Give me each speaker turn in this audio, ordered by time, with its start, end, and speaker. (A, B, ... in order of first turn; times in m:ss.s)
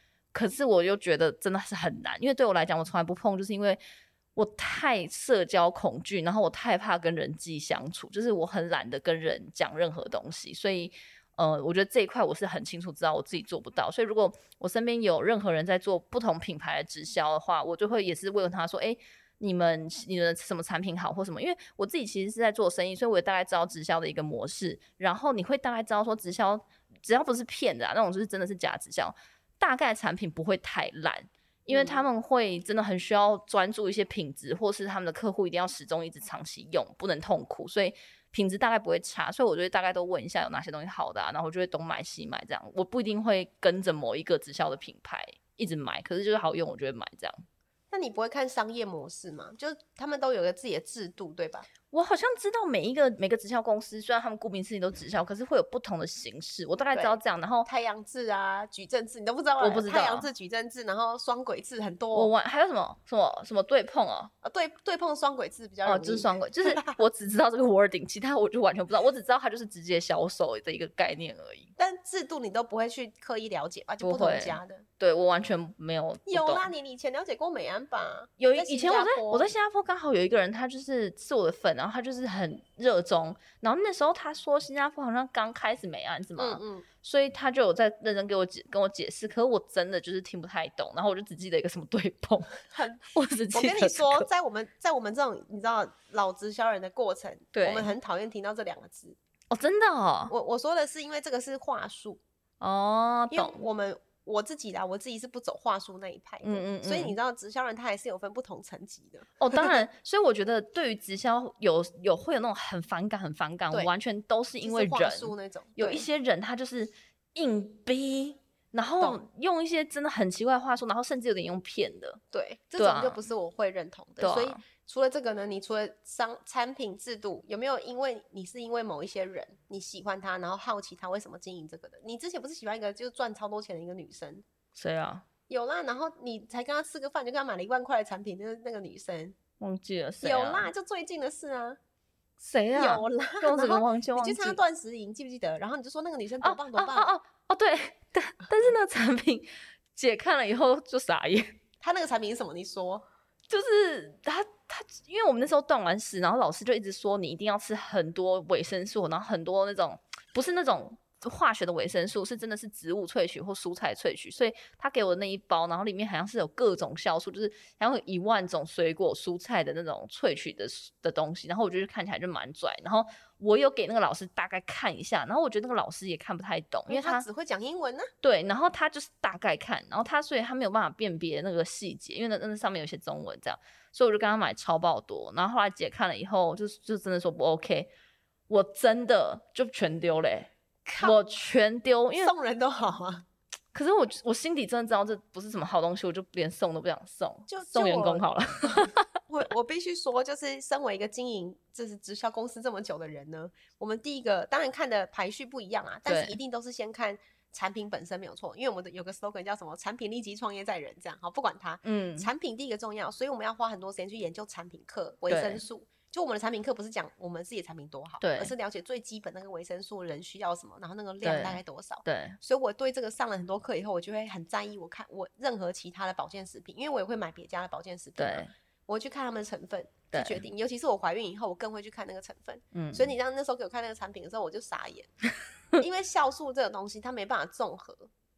0:00.3-0:03.8 A
0:04.4-0:47.4 A
0:31.7-0:32.0 B
0:47.9-0:51.7 B
0:51.9-0:57.7 A
0:56.8-1:02.3 B
0:59.6-1:00.3 A
1:02.1-1:04.3 A
1:04.4-1:07.0 B
1:05.8-1:11.7 A
1:11.8-1:14.8 B
1:14.0-1:16.7 A
1:16.3-1:19.5 B
1:18.4-1:32.6 A
1:26.4-1:26.9 B
1:32.7-1:39.2 B
1:33.1-1:34.3 A
1:37.5-1:37.9 A
1:39.5-1:40.3 A
1:40.3-1:42.2 B
1:42.6-1:43.6 A
1:43.3-1:49.6 B
1:46.4-1:47.2 A
1:49.4-2:02.2 A
1:54.6-1:56.1 B
2:02.3-2:14.4 B
2:02.8-2:03.2 A
2:04.2-2:04.6 A
2:14.7-2:15.2 A
2:15.5-2:19.4 B
2:19.6-2:20.7 A
2:20.2-2:21.8 B
2:22.4-2:24.6 A
2:22.7-2:27.1 B
2:26.4-2:31.6 A
2:31.8-2:33.0 B
2:33.5-2:57.2 A
2:56.9-2:58.1 B
2:58.2-3:07.9 A
3:08.5-3:10.5 A
3:10.8-3:11.2 B
3:11.0-3:12.3 A
3:12.2-3:13.2 B
3:13.7-3:19.1 A
3:17.5-3:55.1 B
3:26.1-3:26.4 A
3:31.8-3:32.3 A
3:35.3-3:35.6 A
3:38.2-3:38.5 A
3:41.2-3:42.4 A
3:48.2-3:48.5 A
3:50.1-3:50.4 A
3:52.7-3:53.1 A
3:55.8-3:58.1 B